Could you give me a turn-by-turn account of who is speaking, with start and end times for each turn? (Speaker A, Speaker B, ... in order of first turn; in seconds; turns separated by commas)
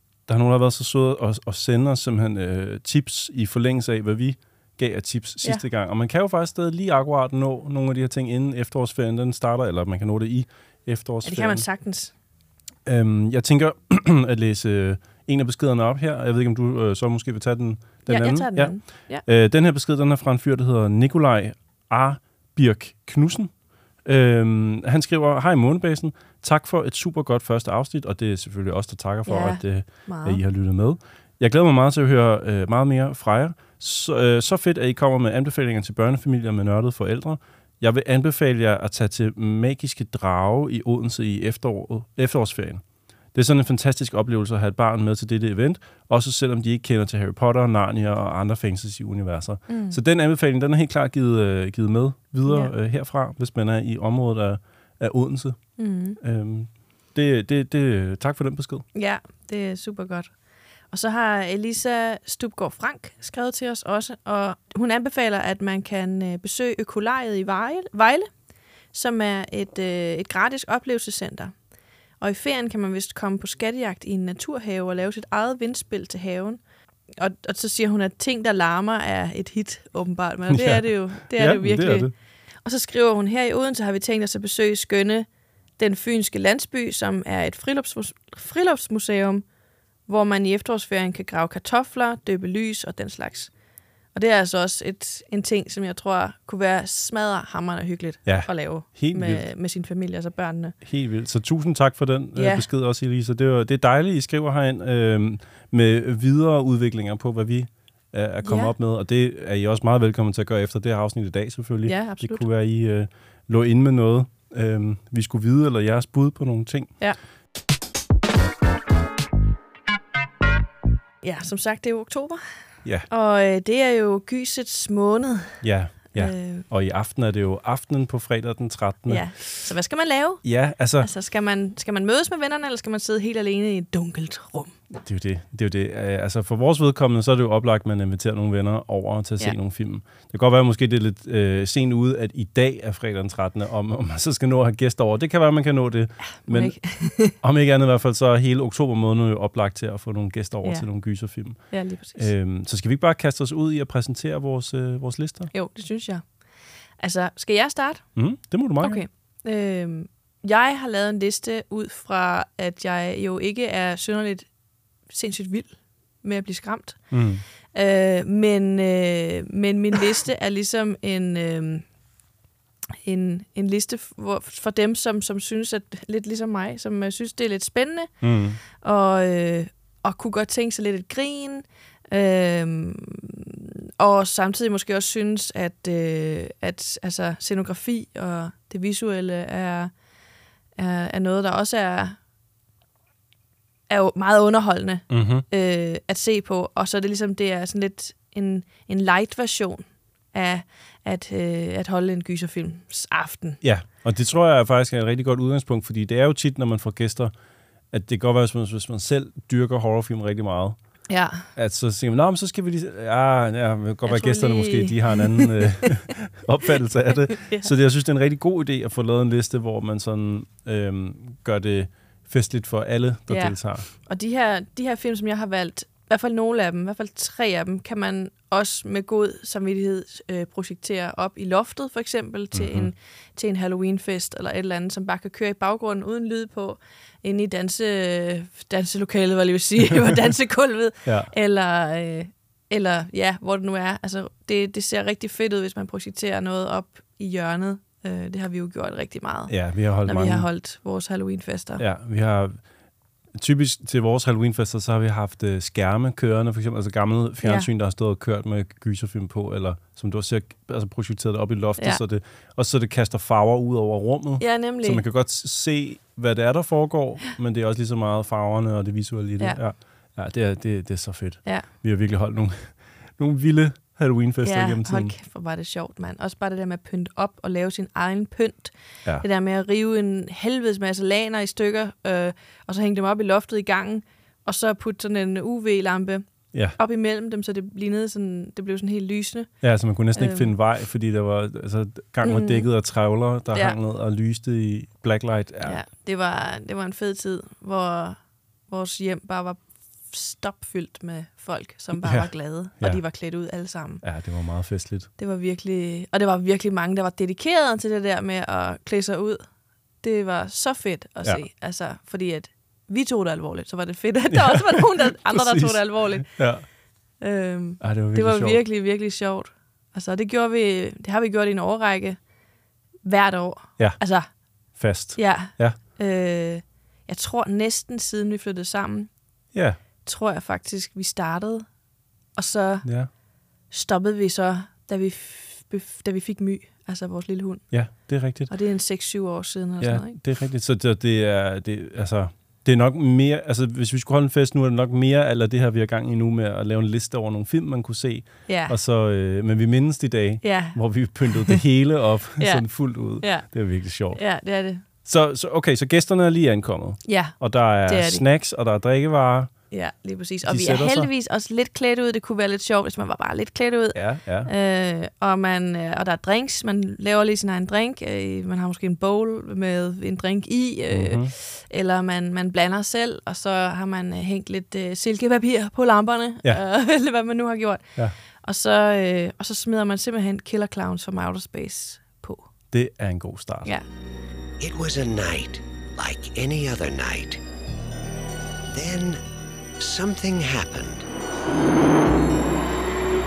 Speaker A: 0.3-11.7, Speaker B: 11.2-12.1, Speaker A: 12.9-23.5, Speaker B: 18.1-19.2, Speaker A: 24.0-42.8, Speaker B: 29.3-30.4, Speaker A: 43.3-58.9, Speaker B: 49.7-50.0, Speaker B: 52.5-52.7, Speaker B: 55.8-56.2, Speaker B: 59.0-60.3, Speaker B: 60.9-68.3, Speaker B: 68.9-71.5, Speaker B: 72.2-76.6, Speaker B: 77.2-82.1, Speaker A: 80.5-82.1, Speaker B: 82.7-89.5, Speaker B: 90.1-93.5, Speaker B: 94.1-100.8, Speaker A: 98.3-99.5, Speaker A: 100.8-117.0, Speaker B: 102.4-102.7, Speaker B: 108.4-108.7, Speaker B: 111.8-112.5, Speaker B: 121.2-122.4, Speaker B: 123.1-125.6, Speaker A: 125.6-129.5, Speaker B: 126.2-126.7, Speaker B: 129.1-130.4, Speaker A: 130.4-131.1, Speaker B: 131.0-134.8, Speaker A: 134.9-146.8, Speaker B: 146.4-147.4, Speaker A: 147.3-155.5, Speaker B: 151.7-152.3, Speaker B: 155.5-156.3, Speaker B: 157.0-158.2, Speaker A: 158.2-159.0, Speaker B: 158.8-164.5, Speaker B: 165.1-167.2, Speaker A: 167.1-167.4, Speaker B: 167.7-171.8, Speaker B: 173.0-178.2, Speaker A: 178.2-178.6, Speaker B: 178.8-189.9, Speaker B: 190.8-192.2, Speaker B: 193.9-203.6, Speaker A: 195.1-195.4, Speaker A: 203.6-207.3, Speaker A: 207.9-210.8, Speaker B: 211.1-211.4, Speaker A: 211.6-223.9, Speaker B: 214.1-215.5, Speaker B: 217.3-217.7, Speaker B: 223.3-251.8, Speaker A: 232.5-232.9, Speaker A: 241.1-241.3, Speaker A: 249.5-250.5, Speaker A: 251.8-252.6, Speaker A: 253.4-275.1, Speaker B: 257.4-257.7, Speaker B: 264.4-265.0, Speaker B: 274.4-289.6, Speaker A: 289.6-295.8, Speaker B: 290.2-290.5, Speaker B: 292.2-292.7, Speaker B: 295.6-304.0, Speaker A: 302.0-303.0, Speaker A: 304.0-305.1, Speaker B: 305.2-309.5, Speaker B: 310.0-316.4, Speaker A: 314.3-316.6, Speaker B: 317.2-322.2, Speaker A: 317.8-318.6, Speaker B: 323.1-324.4, Speaker A: 324.7-325.8, Speaker B: 325.2-329.1, Speaker A: 329.5-329.8, Speaker B: 330.0-331.7, Speaker B: 332.4-332.9, Speaker A: 332.9-333.1, Speaker B: 333.7-337.8, Speaker A: 337.7-338.5, Speaker B: 338.5-340.2, Speaker A: 339.8-354.2, Speaker B: 348.5-348.8, Speaker B: 350.4-350.8, Speaker B: 353.2-353.5, Speaker B: 354.1-354.8, Speaker A: 355.1-359.5, Speaker B: 357.1-358.2, Speaker B: 359.7-382.5, Speaker A: 360.4-361.1, Speaker A: 363.9-364.5, Speaker A: 370.9-371.3, Speaker A: 382.7-383.7, Speaker C: 384.6-387.4, Speaker C: 388.7-389.2, Speaker C: 389.8-391.1